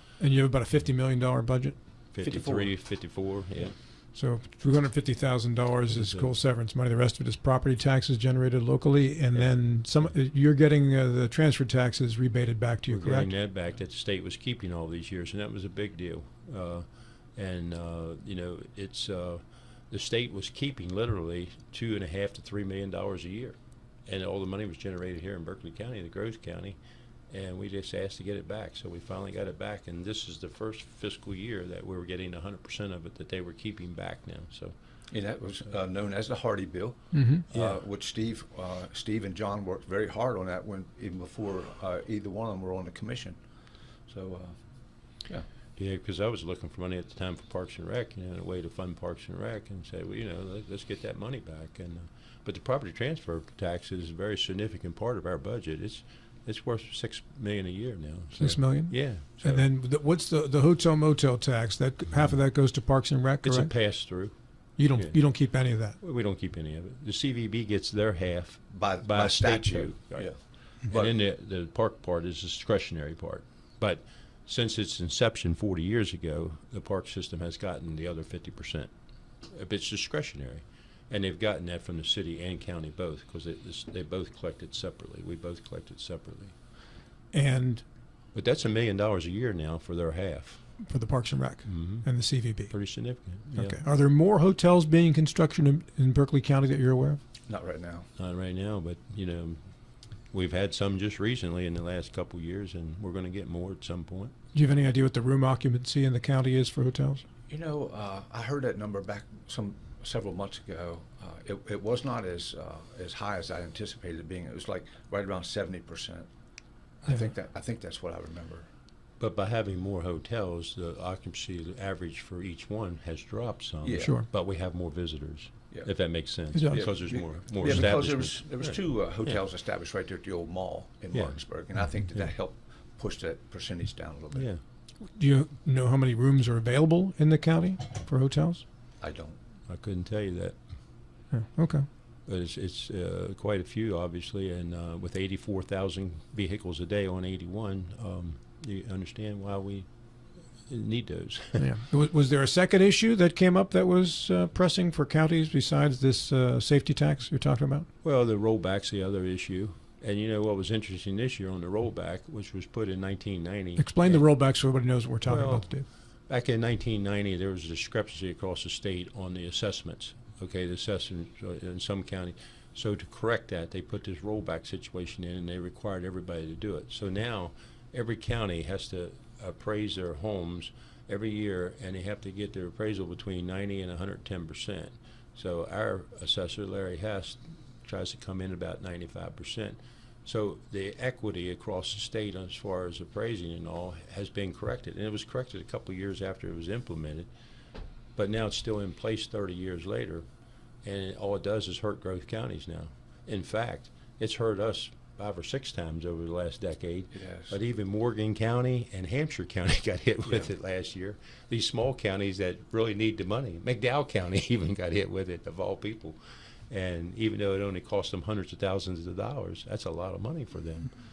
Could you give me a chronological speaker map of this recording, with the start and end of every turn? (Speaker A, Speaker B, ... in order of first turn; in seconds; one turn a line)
Speaker A: 0.2-1.8
Speaker B: 2.1-3.8
Speaker C: 2.2-2.8
Speaker A: 4.1-13.3
Speaker B: 5.9-6.3
Speaker B: 12.9-26.8
Speaker B: 27.3-34.7
Speaker C: 35.1-43.4
Speaker A: 37.1-37.5
Speaker B: 37.5-37.8
Speaker C: 44.1-44.6
Speaker B: 45.8-59.6
Speaker A: 58.4-66.0
Speaker B: 63.4-64.4
Speaker B: 64.9-78.9
Speaker C: 68.7-71.2
Speaker B: 79.5-86.6
Speaker A: 87.3-87.8
Speaker B: 88.3-90.7
Speaker A: 90.8-97.2
Speaker B: 91.7-93.8
Speaker C: 97.5-98.1
Speaker B: 98.2-99.6
Speaker B: 100.3-104.3
Speaker A: 104.5-107.2
Speaker C: 107.5-116.3
Speaker C: 117.0-118.7
Speaker B: 119.2-129.4
Speaker C: 123.8-124.1
Speaker A: 124.0-124.3
Speaker A: 126.6-126.9
Speaker C: 126.7-134.5
Speaker B: 131.1-131.4
Speaker B: 134.3-134.6
Speaker A: 135.1-138.6
Speaker C: 139.0-139.4
Speaker B: 139.7-140.6
Speaker A: 141.3-141.9
Speaker B: 142.3-149.9
Speaker B: 150.7-151.7
Speaker A: 151.6-157.9
Speaker B: 158.0-164.3
Speaker A: 163.8-165.8
Speaker B: 165.2-165.8
Speaker B: 166.3-197.3
Speaker B: 198.2-200.2
Speaker B: 200.8-216.2
Speaker C: 207.1-207.6
Speaker B: 216.7-220.9